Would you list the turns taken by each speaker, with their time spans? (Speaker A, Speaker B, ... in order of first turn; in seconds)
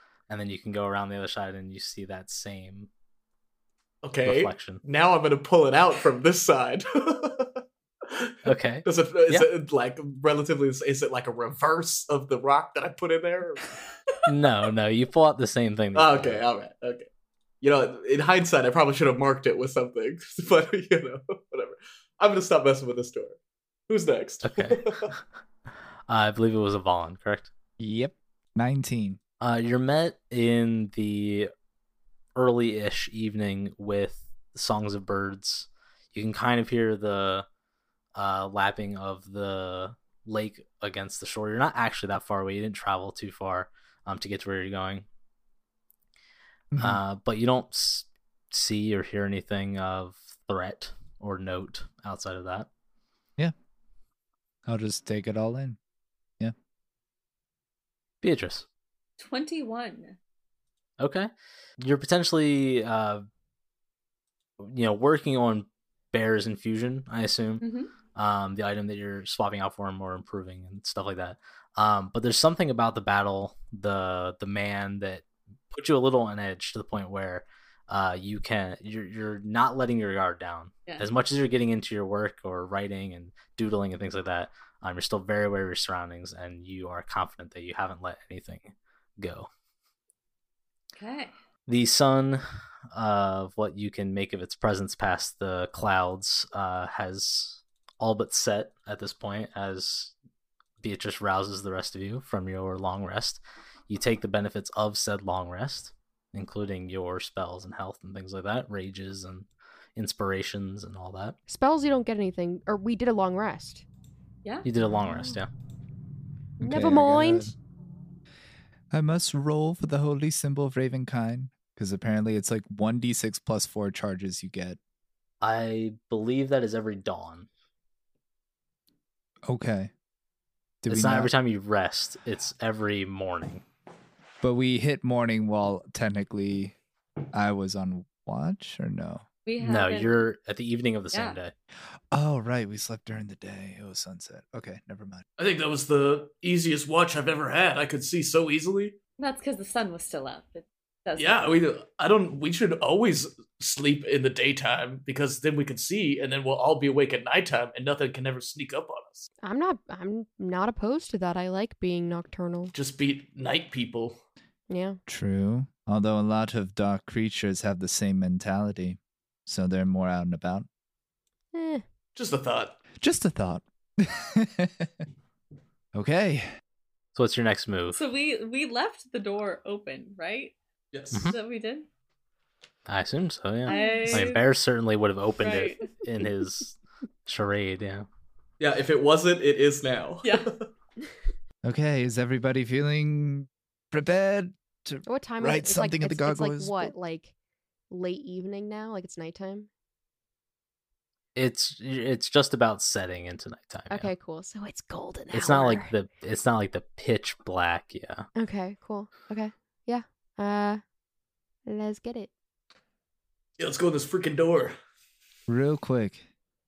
Speaker A: 0.3-2.9, 4.2-4.8, 8.4-9.5, 14.2-16.4, 24.4-25.2, 26.1-27.5, 29.4-31.5, 32.4-37.5, 38.1-45.0, 46.8-52.7, 58.2-58.6, 61.0-63.2, 64.6-67.6, 68.1-89.5, 91.7-100.1, 100.8-111.4, 114.6-115.5, 125.4-127.5, 130.9-133.6, 139.6-141.5, 177.2-178.0, 182.9-188.1, 201.3-204.1, 205.3-208.3
Speaker B: 4.0-13.7, 15.9-17.1, 17.6-23.4, 23.9-25.1, 145.4-148.9, 151.2-159.3, 162.7-164.2, 172.1-172.8, 180.9-181.3, 188.6-190.7, 213.6-214.8
Speaker C: 27.8-29.2, 46.7-47.0, 54.6-55.8, 116.6-117.5, 118.9-124.8, 129.4-129.9, 130.8-131.3, 134.4-136.7, 137.3-139.2, 142.1-145.2, 165.1-170.7, 173.0-175.0, 175.9-176.4, 191.6-196.9, 215.5-216.2
Speaker D: 59.2-60.2, 67.6-67.9, 90.9-91.3, 139.4-140.2, 141.1-141.4, 149.2-151.6, 177.9-180.5, 181.1-181.9, 183.7-184.4, 185.4-185.9, 190.2-190.5
Speaker E: 111.5-113.8, 114.8-115.4, 116.6-117.5, 159.4-162.7, 164.7-165.0, 171.5-171.8, 183.7-184.3, 195.1-197.3, 197.9-199.7, 203.9-205.9, 208.3-210.8, 211.7-212.3